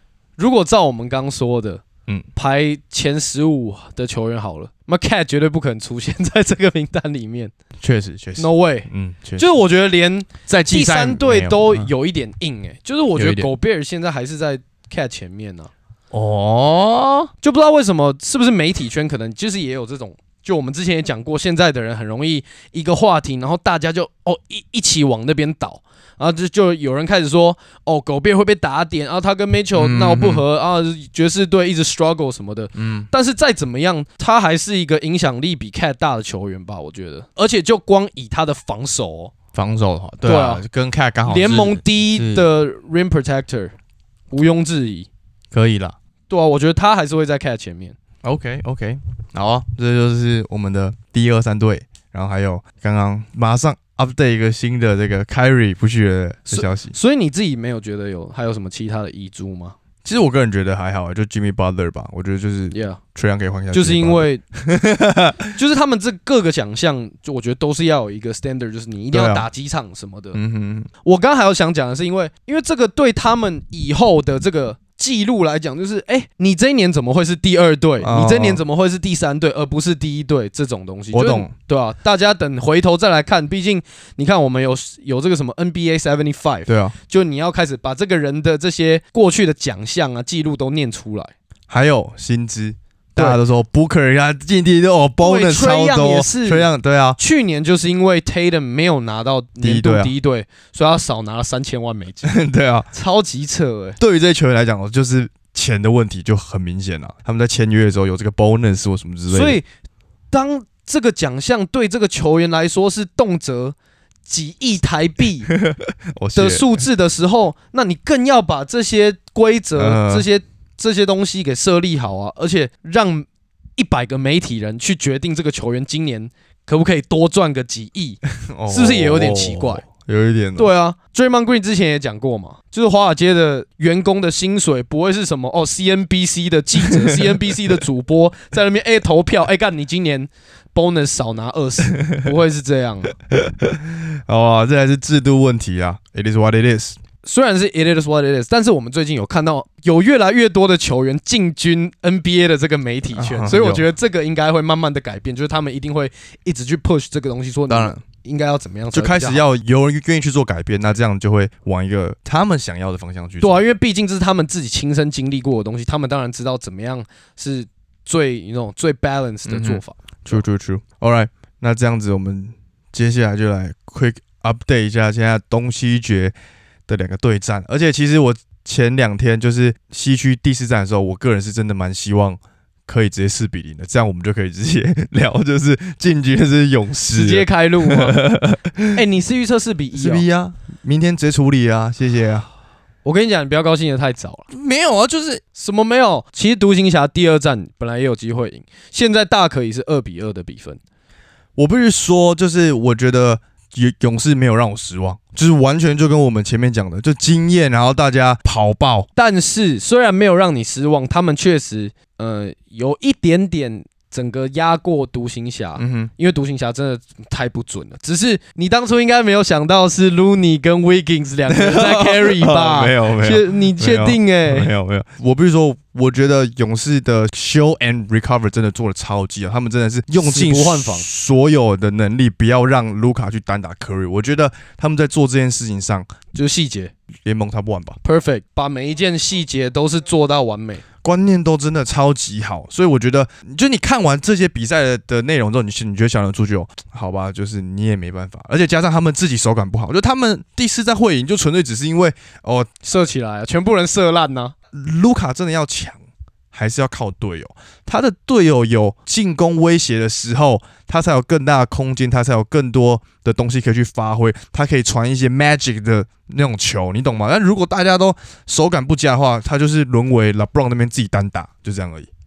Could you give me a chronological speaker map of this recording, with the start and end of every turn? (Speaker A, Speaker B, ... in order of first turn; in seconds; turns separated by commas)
Speaker A: 0.4-1.8, Speaker A: 2.4-7.5, Speaker B: 7.8-9.6, Speaker A: 8.4-15.7, Speaker B: 10.5-11.9, Speaker B: 13.2-13.5, Speaker B: 16.1-17.3, Speaker A: 17.4-39.3, Speaker B: 29.8-30.4, Speaker B: 32.8-33.1, Speaker B: 39.5-42.5, Speaker A: 40.2-40.6, Speaker A: 41.2-43.7, Speaker A: 44.3-45.1, Speaker B: 45.5-46.0, Speaker A: 46.3-48.0, Speaker B: 48.2-57.0, Speaker A: 56.5-59.8, Speaker B: 60.0-65.5, Speaker A: 62.7-63.0, Speaker A: 63.7-64.4, Speaker A: 65.5-70.4, Speaker B: 69.1-69.5, Speaker B: 70.3-70.9, Speaker A: 71.0-91.3, Speaker B: 78.0-78.6, Speaker B: 81.1-81.5, Speaker B: 86.7-87.0, Speaker B: 91.7-97.2, Speaker A: 95.2-102.3, Speaker B: 99.6-100.1, Speaker B: 102.2-102.9, Speaker A: 102.9-104.0, Speaker B: 104.0-109.6, Speaker A: 109.3-109.7, Speaker A: 110.3-115.5, Speaker B: 115.5-116.7, Speaker A: 116.3-123.3, Speaker B: 119.8-120.3, Speaker A: 123.8-129.9, Speaker B: 128.5-130.7, Speaker A: 130.6-143.2, Speaker B: 136.9-137.3, Speaker B: 143.3-147.0, Speaker A: 147.2-159.4, Speaker B: 153.2-153.9, Speaker B: 157.7-158.0, Speaker B: 158.9-163.6, Speaker A: 163.4-170.4, Speaker B: 169.5-176.3, Speaker B: 176.9-189.0, Speaker A: 187.1-188.2, Speaker A: 188.9-190.2, Speaker B: 190.0-192.5, Speaker A: 193.1-194.5, Speaker B: 194.5-195.4, Speaker A: 195.6-200.8, Speaker B: 201.6-209.1, Speaker A: 209.2-224.7, Speaker B: 215.8-216.1, Speaker B: 221.5-236.1, Speaker A: 230.2-231.1, Speaker A: 236.3-236.9, Speaker B: 237.2-238.0, Speaker A: 238.0-240.8, Speaker B: 241.0-252.7, Speaker A: 252.8-254.5, Speaker B: 254.7-256.0, Speaker B: 256.5-272.1